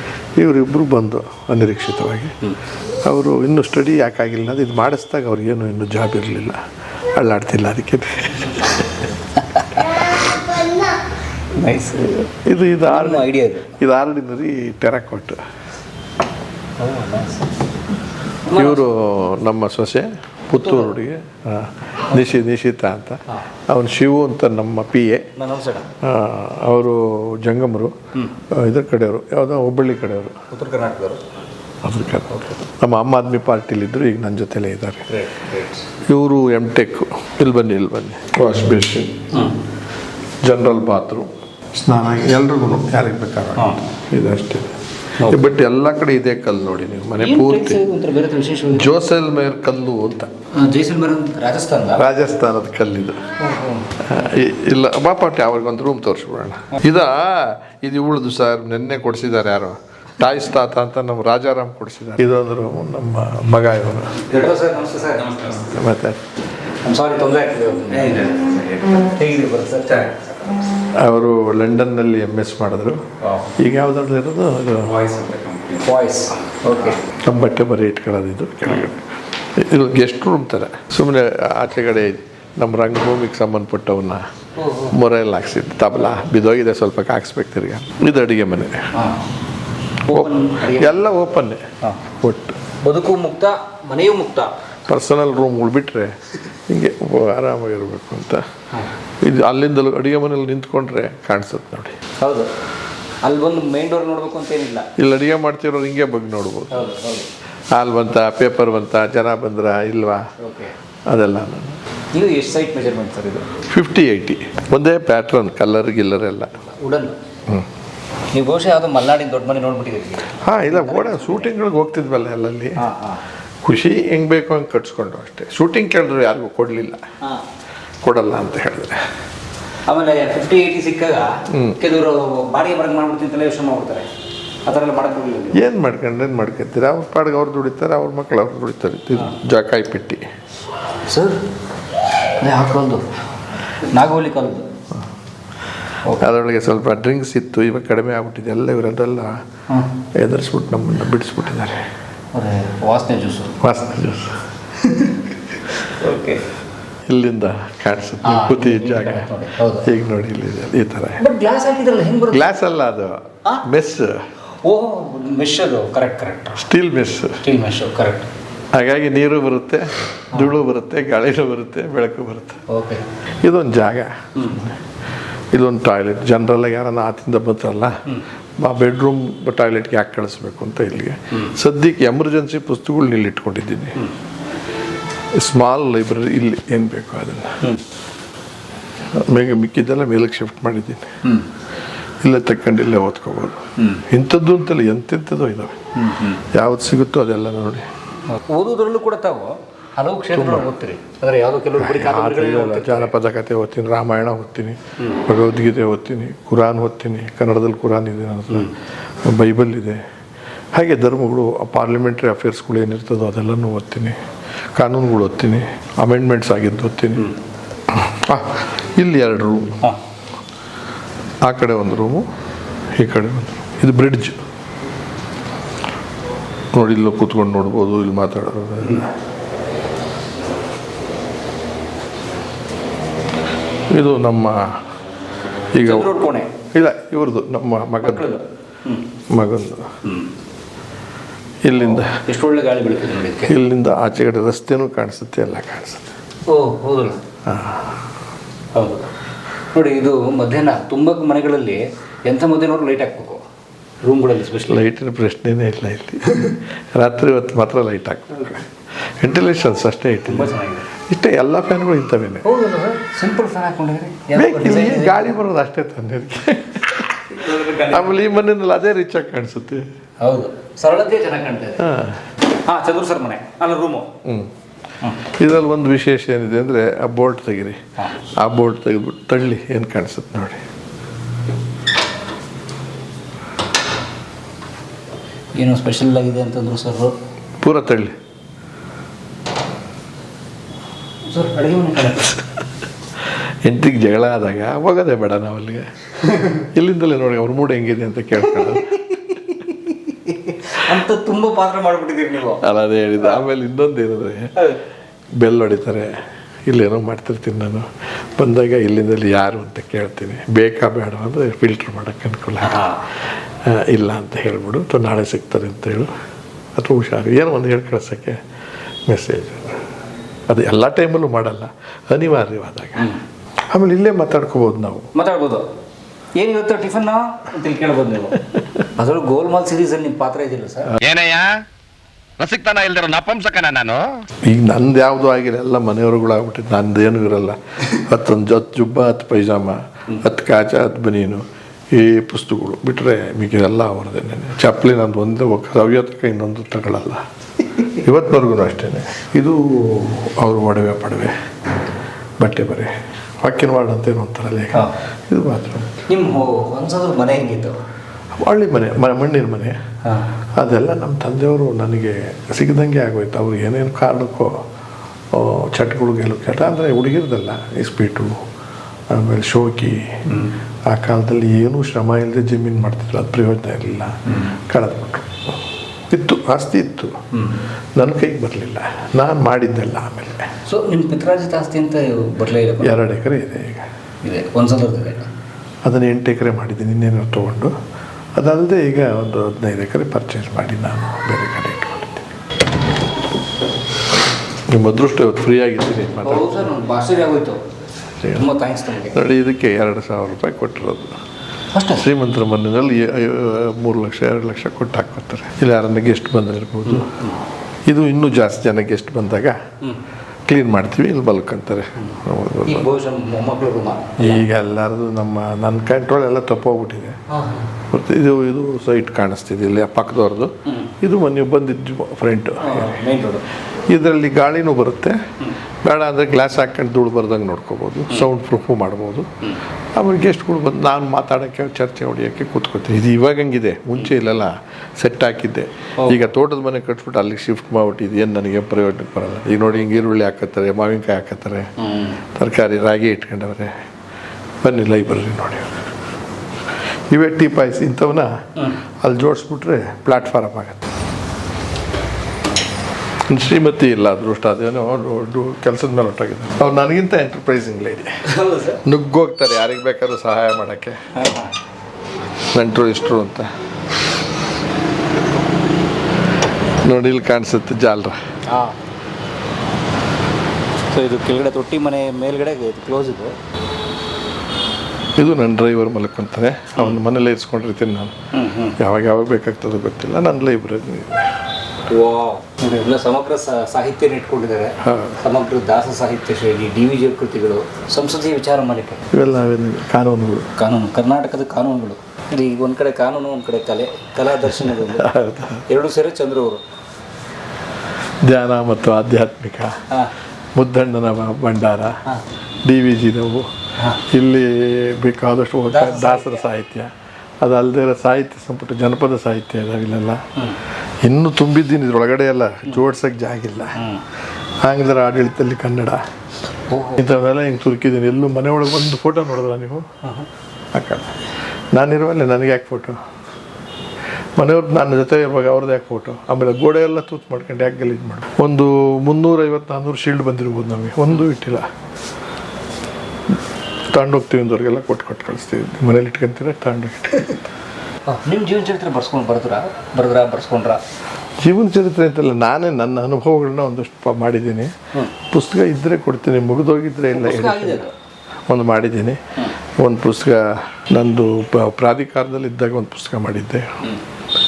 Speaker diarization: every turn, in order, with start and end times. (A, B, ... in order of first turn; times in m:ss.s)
0:00.4-0:02.3 A
0:03.0-0:06.6 A
0:07.2-0:09.0 A
0:09.4-0:10.0 B
0:11.6-0:12.1 B
0:12.1-0:15.4 A
0:12.9-0:13.7 B
0:16.8-0:17.5 B
0:18.4-0:18.8 B
0:18.5-0:25.2 A
0:20.6-0:20.9 B
0:22.1-0:22.4 B
0:25.4-0:25.9 B
0:26.0-0:27.9 A
0:28.5-0:30.4 A
0:30.5-0:31.2 B
0:31.8-0:35.0 A
0:32.3-0:32.6 B
0:35.1-0:35.9 B
0:36.1-0:39.2 A
0:39.3-0:39.6 B
0:40.4-0:47.8 A
0:43.6-0:43.8 B
0:45.2-0:45.4 B
0:47.2-0:48.9 B
0:48.7-0:50.3 A
0:50.5-0:52.0 B
0:51.9-0:53.2 A
0:53.4-0:53.9 B
0:54.0-1:04.2 A
1:04.2-1:05.7 B
1:05.5-1:06.2 A
1:06.8-1:10.3 B
1:10.9-1:13.0 A
1:13.2-1:13.6 B
1:13.6-1:15.4 A
1:15.5-1:17.0 B
1:17.0-1:24.2 A
1:24.6-1:25.0 B
1:24.9-1:28.9 A
1:28.9-1:29.2 B
1:30.0-1:31.0 B
1:30.1-1:31.6 A
1:31.8-1:32.1 B
1:32.2-1:32.6 A
1:32.8-1:34.5 B
1:34.9-1:36.1 A
1:36.7-1:38.4 A
1:39.2-1:42.0 A
1:42.2-1:42.5 B
1:43.2-1:44.9 B
1:45.0-1:46.8 A
1:46.7-1:47.3 B
1:47.7-1:50.2 A
1:50.4-1:50.7 B
1:51.1-1:51.8 A
1:52.1-1:53.5 B
1:53.6-1:56.6 A
1:56.6-1:57.2 B
1:58.3-2:01.5 B
2:00.4-2:02.8 A
2:02.8-2:03.2 B
2:03.6-2:07.0 A
2:08.0-2:09.0 A
2:09.9-2:14.1 B
2:11.5-2:11.8 A
2:14.6-2:15.6 B
2:15.5-2:20.2 A
2:21.0-2:21.4 B
2:22.4-2:23.1 B
2:23.8-2:24.6 B
2:26.1-2:29.4 A
2:30.2-2:31.8 A
2:32.3-2:33.6 B
2:33.6-2:34.4 A
2:34.8-2:35.1 B
2:35.8-2:36.4 B
2:37.1-2:39.3 A
2:38.2-2:39.9 B
2:39.8-2:41.2 A
2:41.2-2:42.5 B
2:42.3-2:44.3 A
2:44.6-2:46.6 B
2:46.6-2:47.4 A
2:47.4-2:48.3 B
2:48.7-2:52.6 A
2:52.7-2:53.0 B
2:53.4-2:54.8 A
2:54.4-2:54.6 B
2:55.5-2:57.9 A
2:58.6-3:04.0 A
3:05.4-3:07.6 A
3:09.1-3:11.1 A
3:12.2-3:15.8 A
3:13.8-3:14.0 B
3:16.0-3:16.4 B
3:16.3-3:17.8 A
3:18.3-3:23.1 B
3:20.3-3:20.7 A
3:21.8-3:30.0 A
3:30.7-3:34.2 A
3:34.8-3:37.3 A
3:37.9-3:39.8 A
3:41.4-3:42.2 A
3:43.0-3:44.4 A
3:46.7-3:49.1 A
3:53.9-3:54.8 A
3:55.7-3:56.2 A
3:55.8-3:56.5 B
3:56.7-3:58.4 A
3:58.0-3:59.0 B
3:59.3-3:59.9 A
4:00.0-4:00.3 B
4:01.6-4:02.2 A
4:02.0-4:03.5 B
4:03.4-4:06.1 A
4:06.5-4:07.2 B
4:07.4-4:08.0 A
4:08.7-4:09.1 B
4:09.7-4:13.4 B
4:14.0-4:14.8 B
4:14.6-4:20.5 A
4:20.2-4:20.9 B
4:21.1-4:22.5 A
4:22.4-4:25.2 B
4:24.3-4:29.8 A
4:27.3-4:28.2 B
4:30.2-4:31.9 B
4:31.8-4:32.2 A
4:32.5-4:34.1 B
4:34.2-4:34.5 A
4:35.2-4:37.8 A
4:38.4-4:40.6 A
4:45.6-4:47.1 B
4:47.6-4:48.1 A
4:51.2-4:52.4 B
4:53.6-4:55.9 A
4:56.3-4:56.6 B
4:56.6-4:59.0 A
4:58.6-5:02.6 B
5:02.6-5:04.5 A
5:05.4-5:06.1 A
5:06.7-5:16.1 A
5:12.6-5:13.0 B
5:16.8-5:18.4 A
5:19.1-5:19.8 A
5:20.5-5:23.1 A
5:23.7-5:25.1 A
5:25.1-5:25.6 B
5:26.4-5:28.4 B
5:28.9-5:30.9 B
5:31.0-5:31.6 C
5:32.4-5:34.1 C
5:34.4-5:47.2 A
5:47.9-5:51.3 A
5:52.4-5:56.0 A
5:56.1-5:57.8 B
5:58.4-5:59.8 A
6:00.6-6:04.6 A
6:05.3-6:08.4 A
6:09.1-6:10.2 A
6:10.9-6:15.4 A
6:16.1-6:17.2 A
6:18.0-6:20.5 A
6:20.6-6:23.0 B
6:22.8-6:23.9 A
6:24.2-6:25.3 B
6:25.8-6:27.7 A
6:28.4-6:32.3 A
6:34.7-6:36.7 A
6:36.2-6:37.6 B
6:38.3-6:39.2 B
6:39.0-6:41.1 A
6:41.7-6:42.1 B
6:41.9-6:47.1 A
6:46.8-6:47.4 B
6:47.9-6:49.6 A
6:50.5-6:52.9 A
6:52.0-6:54.4 B
6:54.2-6:57.2 A
6:57.3-6:57.7 B
6:57.9-7:03.0 A
7:00.7-7:00.9 B
7:02.6-7:03.4 B
7:03.9-7:05.2 A
7:05.8-7:09.3 A
7:10.0-7:21.7 A
7:21.8-7:22.2 B
7:22.2-7:23.7 A
7:24.6-7:25.9 A
7:27.1-7:28.3 A
7:29.0-7:30.8 A
7:33.3-7:38.1 A
7:38.3-7:38.8 B
7:38.8-7:41.0 A
7:41.1-7:41.5 B
7:42.5-7:43.5 A
7:46.8-7:48.2 A
7:48.5-7:48.8 B
7:50.9-7:53.4 B
7:55.1-7:58.1 A
7:58.3-7:58.8 B
7:58.6-8:01.4 A
8:01.9-8:09.0 B
8:04.8-8:05.2 A
8:09.1-8:10.5 A
8:10.6-8:15.1 B
8:14.6-8:15.6 A
8:15.6-8:16.6 B
8:18.2-8:19.8 A
8:20.6-8:22.0 A
8:22.6-8:23.5 A
8:24.0-8:26.9 A
8:25.7-8:26.4 B
8:27.4-8:30.2 A
8:31.0-8:33.8 A
8:33.8-8:34.0 B
8:34.6-8:36.0 A
8:36.7-8:37.0 B
8:36.9-8:39.8 A
8:40.7-8:41.2 A
8:41.7-8:43.0 A
8:44.4-8:51.6 A
8:53.9-8:57.5 A
8:58.1-9:00.8 B
9:01.4-9:04.7 A
9:05.3-9:07.9 A
9:07.1-9:07.9 B
9:08.5-9:09.2 A
9:09.8-9:13.8 A